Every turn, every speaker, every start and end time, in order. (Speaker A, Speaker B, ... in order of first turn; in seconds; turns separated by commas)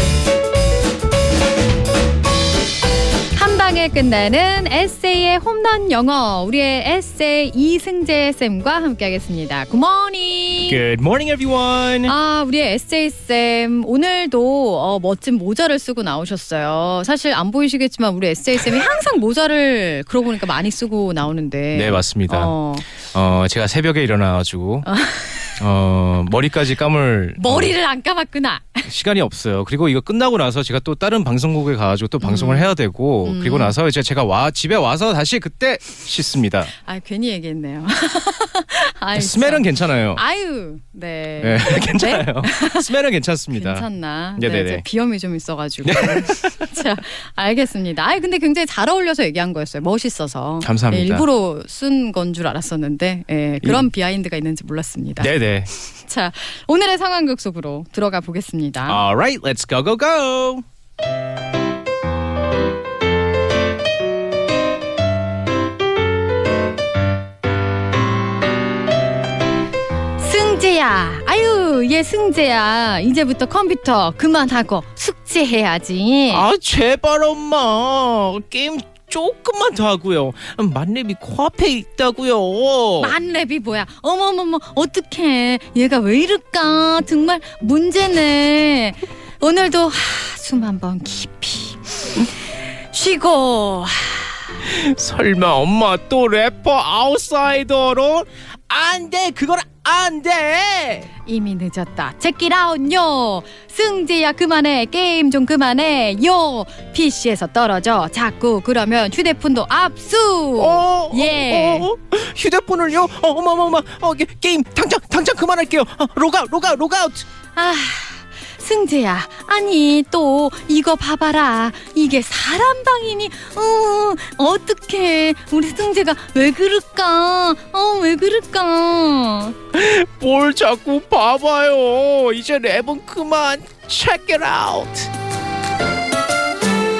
Speaker A: 3.3-10.8, Speaker B: 10.6-12.1, Speaker A: 12.1-22.9, Speaker B: 21.7-24.9, Speaker A: 24.8-25.6, Speaker B: 25.6-27.7, Speaker A: 27.4-28.9, Speaker B: 28.9-36.7, Speaker A: 32.2-32.7, Speaker A: 33.2-33.8, Speaker A: 36.8-42.9, Speaker B: 39.1-40.2, Speaker B: 41.4-44.8, Speaker A: 43.5-55.3, Speaker B: 45.8-46.7, Speaker B: 50.6-51.2, Speaker B: 55.2-55.7, Speaker A: 56.0-59.0, Speaker B: 58.9-60.6, Speaker A: 70.2-76.5, Speaker B: 76.3-83.1, Speaker A: 83.0-94.4, Speaker B: 94.6-101.1, Speaker A: 101.2-111.9, Speaker B: 110.6-117.2, Speaker A: 117.5-129.6, Speaker B: 129.7-135.1